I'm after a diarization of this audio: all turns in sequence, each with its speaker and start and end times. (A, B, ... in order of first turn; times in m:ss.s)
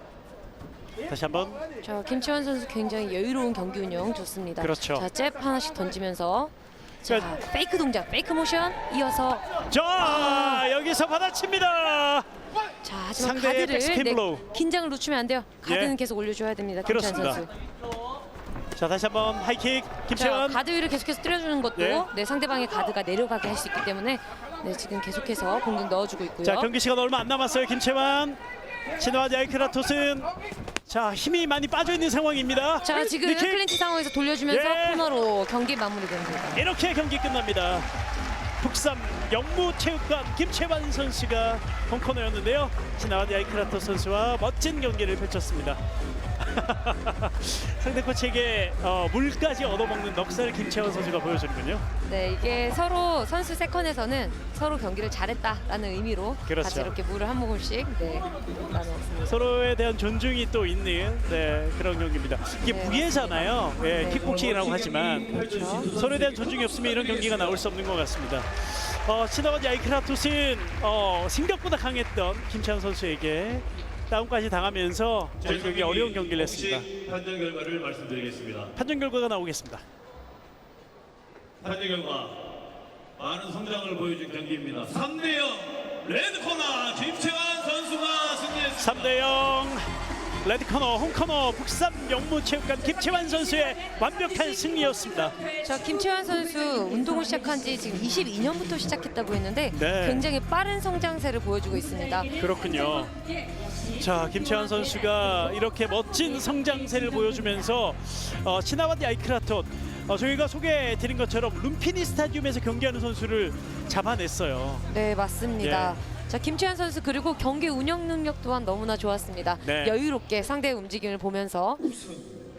0:01.1-0:01.6 A
0:01.8-0:06.5 B
0:04.6-0:05.0 A
0:07.0-0:09.5 B
0:09.7-0:12.2 A
0:10.0-0:10.6 B
0:12.8-0:17.5 B
0:13.2-0:14.4 A
0:15.6-0:15.9 A
0:16.8-0:17.4 A
0:18.8-0:20.6 A
0:20.2-0:26.7 B
0:21.8-0:22.0 A
0:26.4-0:28.4 A
0:29.0-0:30.3 A
0:30.9-0:33.6 A
0:32.8-0:36.7 B
0:34.5-0:35.0 A
0:36.5-0:37.9 A
0:38.6-0:45.8 A
0:46.4-0:51.8 A
0:52.0-0:59.4 B
0:56.4-0:56.9 A
0:59.2-1:16.9 A
1:02.6-1:04.4 B
1:05.4-1:05.9 B
1:16.9-1:18.6 C
1:18.7-1:19.8 A
1:21.6-1:22.3 C
1:23.2-1:28.7 C
1:28.7-1:29.9 A
1:30.4-1:35.4 A
1:35.6-1:42.4 B
1:39.7-1:40.2 A
1:42.4-1:43.1 A
1:43.9-1:54.9 A
1:54.9-2:02.0 B
1:55.6-1:56.0 A
1:59.6-2:00.0 A